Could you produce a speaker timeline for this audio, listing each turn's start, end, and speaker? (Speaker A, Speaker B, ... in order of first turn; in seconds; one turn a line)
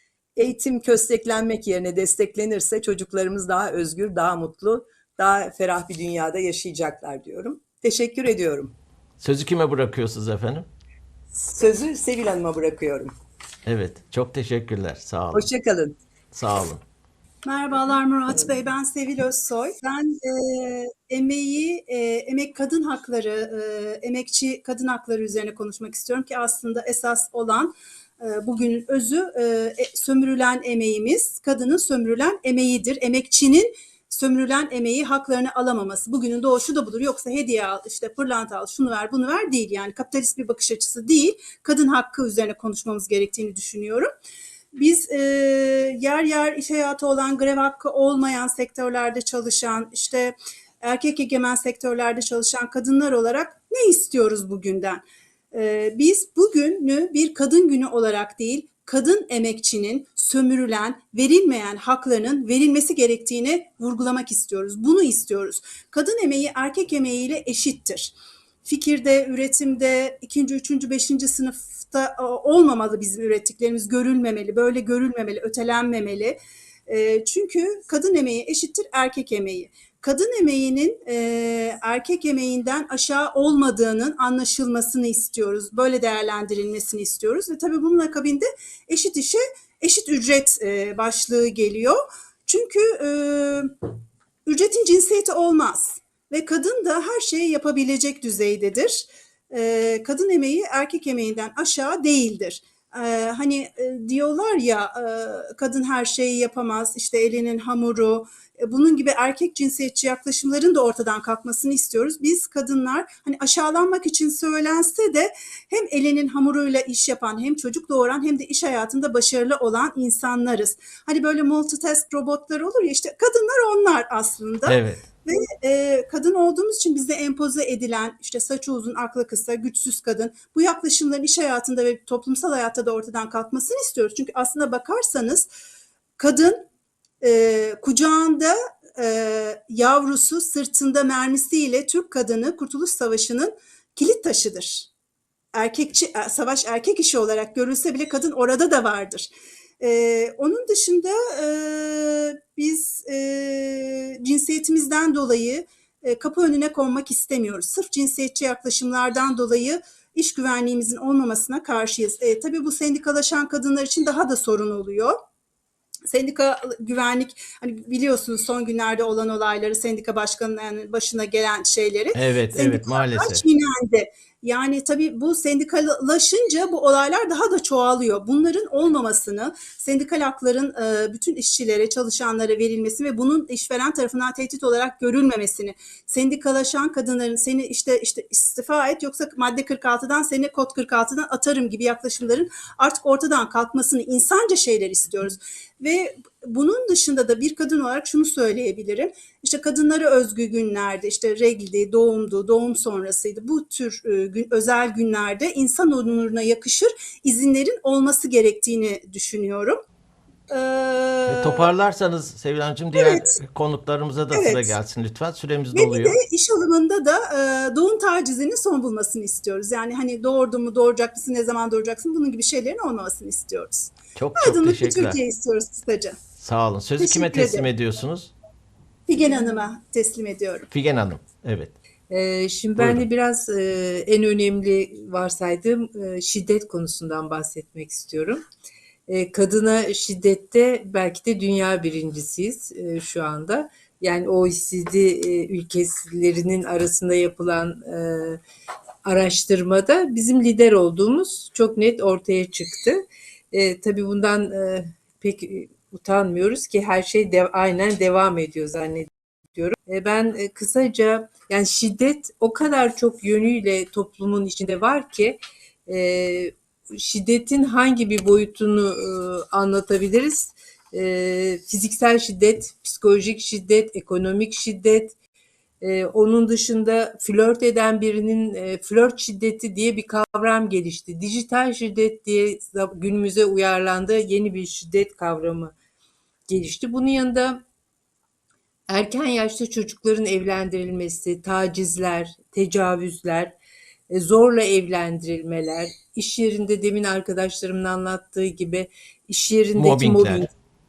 Speaker A: 0.4-8.7
Speaker B: 9.2-10.7
Speaker A: 11.3-13.1
Speaker B: 13.7-15.5
Speaker A: 15.3-16.0
Speaker B: 16.3-16.8
Speaker C: 17.4-44.1
Speaker C: 44.7-93.7
Speaker C: 94.5-135.5
Speaker B: 124.7-125.0
Speaker C: 136.2-136.7
Speaker C: 137.2-144.9
Speaker C: 145.5-165.2
Speaker C: 166.1-209.8
Speaker B: 172.1-173.4
Speaker C: 210.5-211.7
Speaker B: 211.3-216.2
Speaker C: 213.0-213.4
Speaker C: 214.3-214.7
Speaker C: 215.7-226.2
Speaker B: 224.2-225.2
Speaker B: 226.4-228.3
Speaker C: 227.0-227.7
Speaker C: 229.1-230.7
Speaker B: 230.7-231.8
Speaker D: 232.1-238.4
Speaker B: 232.8-233.1
Speaker D: 239.1-248.4
Speaker D: 249.1-275.2
Speaker D: 275.8-285.7
Speaker D: 286.5-287.6
Speaker D: 288.9-293.6
Speaker D: 294.1-300.5
Speaker B: 299.8-300.5